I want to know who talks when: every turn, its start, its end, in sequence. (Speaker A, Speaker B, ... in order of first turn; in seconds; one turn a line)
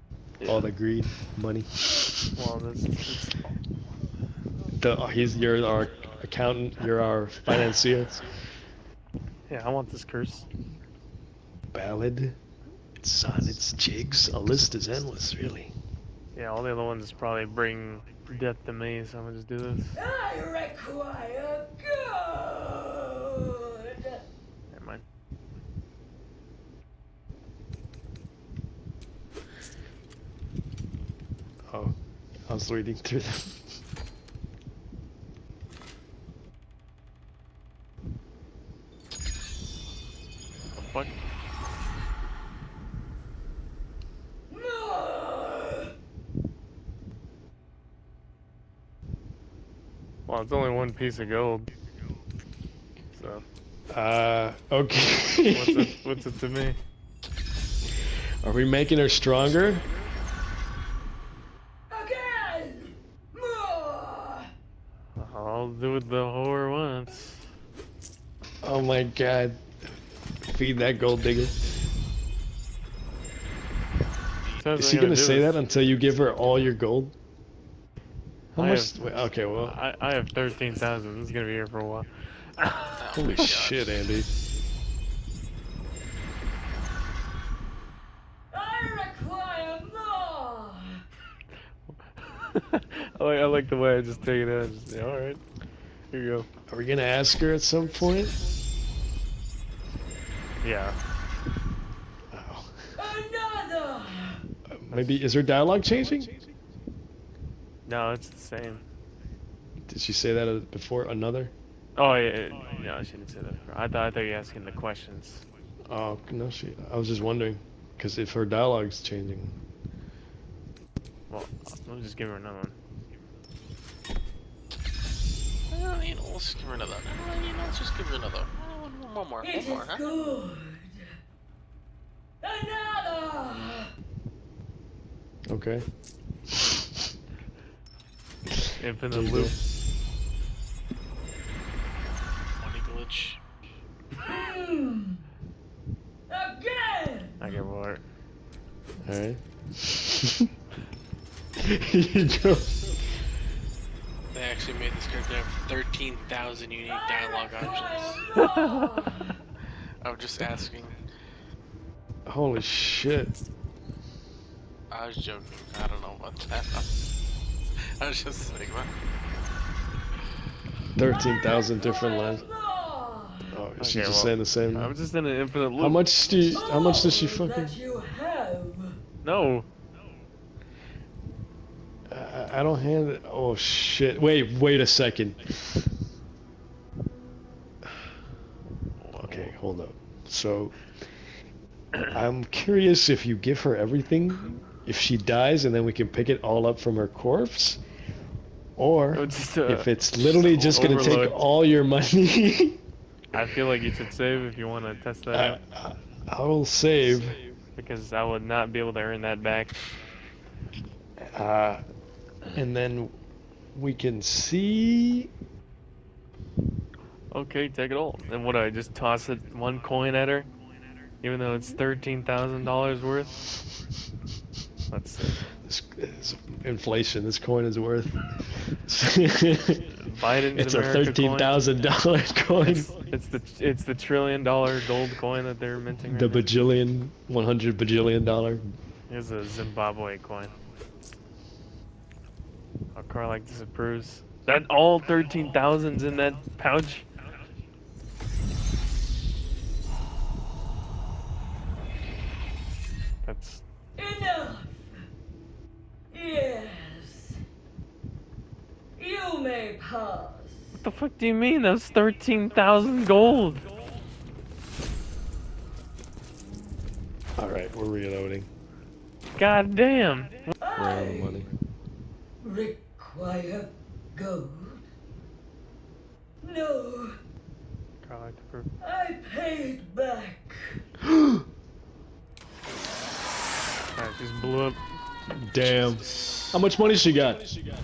Speaker A: 0.4-0.7
Speaker B: 0.4-2.3
Speaker A: 2.3-3.5
Speaker B: 4.8-8.3
Speaker A: 9.5-10.4
Speaker B: 11.7-12.3
Speaker B: 13.0-15.7
Speaker A: 16.3-20.0
Speaker C: 20.0-24.2
Speaker A: 24.7-25.0
Speaker B: 31.7-31.9
Speaker B: 32.5-33.6
Speaker A: 40.8-41.1
Speaker C: 44.5-45.9
Speaker A: 50.3-51.7
Speaker A: 53.1-53.4
Speaker B: 53.9-56.0
Speaker A: 55.5-56.8
Speaker B: 58.4-59.8
Speaker C: 61.9-64.5
Speaker A: 65.2-67.5
Speaker B: 68.6-69.6
Speaker B: 70.5-71.6
Speaker A: 74.6-75.6
Speaker B: 74.8-77.1
Speaker B: 78.5-79.8
Speaker A: 78.6-83.2
Speaker D: 82.9-84.0
Speaker B: 83.1-84.3
Speaker C: 88.5-91.0
Speaker A: 91.9-95.4
Speaker A: 96.1-96.5
Speaker B: 96.7-98.3
Speaker A: 100.6-101.0
Speaker B: 102.3-102.9
Speaker C: 103.0-104.4
Speaker B: 104.7-106.3
Speaker A: 104.9-105.2
Speaker A: 107.8-108.8
Speaker B: 109.9-111.5
Speaker A: 112.0-115.4
Speaker B: 115.9-119.5
Speaker A: 121.3-122.7
Speaker D: 125.7-130.1
Speaker C: 129.4-131.1
Speaker C: 132.4-133.9
Speaker B: 135.5-135.8
Speaker A: 138.8-139.5
Speaker B: 139.1-139.5
Speaker D: 142.6-143.4
Speaker C: 144.2-145.2
Speaker C: 146.3-147.4
Speaker A: 147.4-148.0
Speaker B: 149.0-150.5
Speaker B: 151.6-153.0
Speaker D: 154.3-158.4
Speaker C: 158.3-159.3
Speaker A: 158.3-159.1
Speaker D: 160.0-161.0
Speaker B: 162.2-163.3
Speaker D: 164.9-166.9
Speaker D: 168.0-168.9
Speaker B: 171.0-172.4
Speaker C: 171.8-173.6
Speaker B: 173.5-174.9
Speaker A: 173.8-176.0
Speaker B: 175.8-177.8
Speaker C: 176.5-179.0
Speaker A: 179.2-179.7
Speaker B: 182.1-185.8
Speaker A: 189.0-189.5
Speaker B: 189.2-190.9
Speaker B: 192.1-197.8
Speaker B: 198.8-202.8
Speaker A: 199.1-201.4
Speaker A: 203.3-205.6
Speaker B: 205.3-207.4
Speaker A: 207.8-209.7
Speaker B: 211.2-211.8
Speaker B: 212.5-213.1
Speaker B: 213.7-215.3
Speaker A: 217.3-220.5
Speaker A: 221.2-223.4
Speaker A: 224.9-225.4
Speaker B: 225.6-230.0
Speaker A: 230.0-231.6
Speaker B: 230.5-232.9
Speaker A: 232.6-236.5
Speaker B: 236.1-238.6
Speaker A: 239.1-240.5
Speaker A: 242.9-247.1
Speaker A: 253.2-253.6
Speaker C: 254.0-254.9
Speaker C: 256.1-257.4
Speaker C: 259.0-260.8
Speaker A: 260.8-263.6
Speaker B: 267.4-268.5
Speaker A: 269.4-270.5
Speaker C: 270.6-271.4
Speaker B: 270.7-271.5
Speaker C: 272.4-274.8
Speaker C: 276.4-277.2
Speaker A: 278.0-278.7
Speaker C: 278.8-280.8
Speaker B: 281.0-281.4
Speaker A: 283.9-284.8
Speaker B: 285.3-287.4